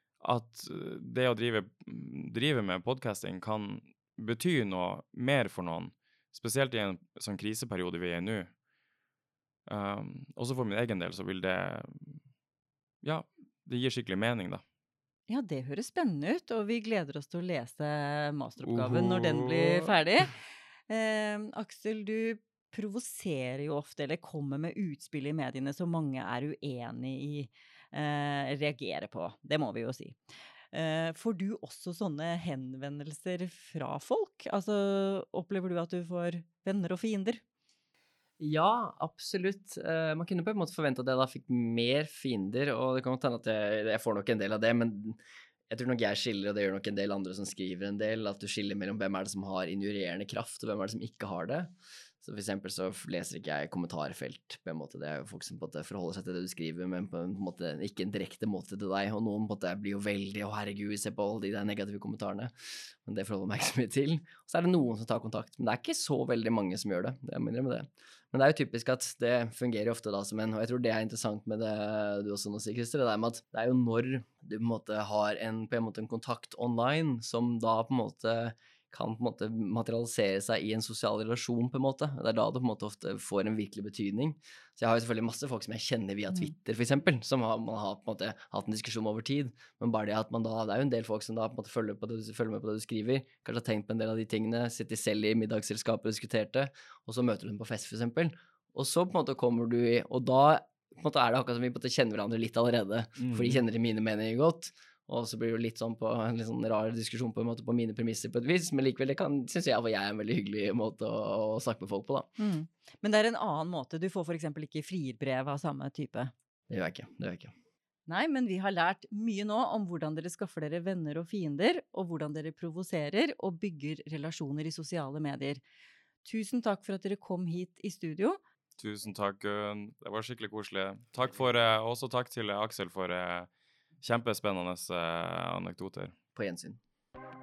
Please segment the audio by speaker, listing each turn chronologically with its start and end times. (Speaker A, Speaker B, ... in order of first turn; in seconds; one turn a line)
Speaker A: 0.2-8.5
Speaker A: 9.7-12.2
Speaker A: 13.0-14.6
Speaker B: 15.3-30.2
Speaker A: 18.6-19.9
Speaker B: 30.7-37.4
Speaker C: 38.4-45.2
Speaker C: 45.7-62.5
Speaker C: 63.0-112.3
Speaker A: 103.2-103.6
Speaker B: 112.4-116.3
Speaker C: 116.7-117.5
Speaker B: 118.1-125.6
Speaker B: 126.2-128.4
Speaker A: 128.8-133.5
Speaker A: 134.0-136.1
Speaker C: 136.3-136.8